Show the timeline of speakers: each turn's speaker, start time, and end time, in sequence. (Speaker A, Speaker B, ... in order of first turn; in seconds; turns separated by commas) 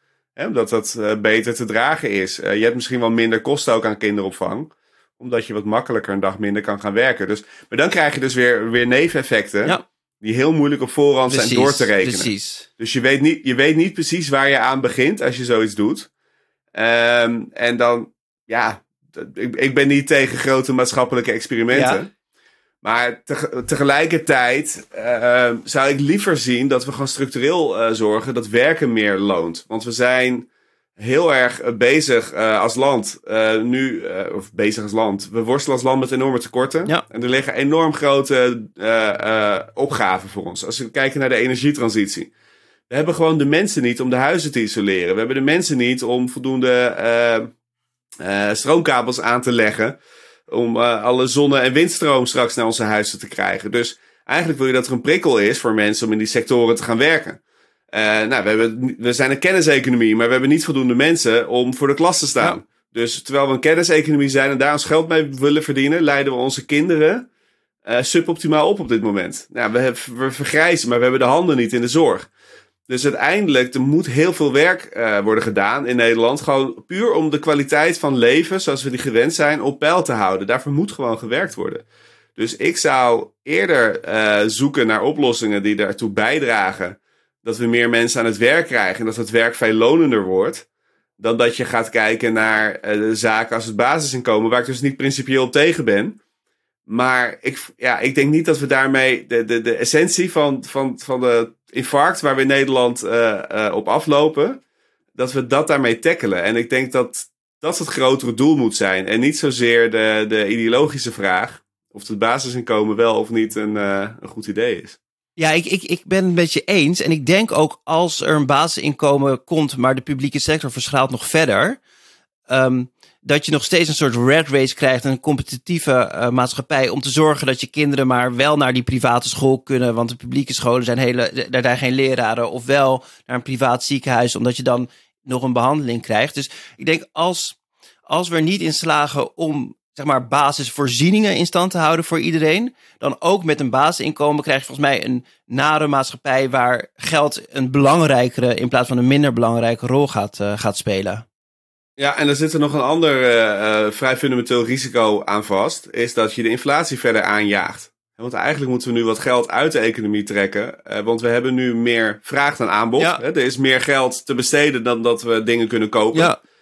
Speaker A: 0.3-16.1, Speaker B: 11.3-12.7, Speaker A: 16.7-22.1, Speaker B: 21.7-22.0, Speaker A: 22.8-30.5, Speaker A: 31.0-42.3, Speaker A: 42.9-47.5, Speaker A: 48.2-57.4, Speaker A: 57.9-67.3, Speaker A: 67.8-72.3, Speaker A: 72.9-81.8, Speaker A: 82.3-90.6, Speaker A: 91.2-96.2, Speaker A: 96.9-104.6, Speaker A: 105.1-115.0, Speaker B: 115.4-121.8, Speaker B: 122.5-137.6, Speaker B: 138.1-151.2, Speaker A: 152.0-166.3, Speaker B: 166.1-166.4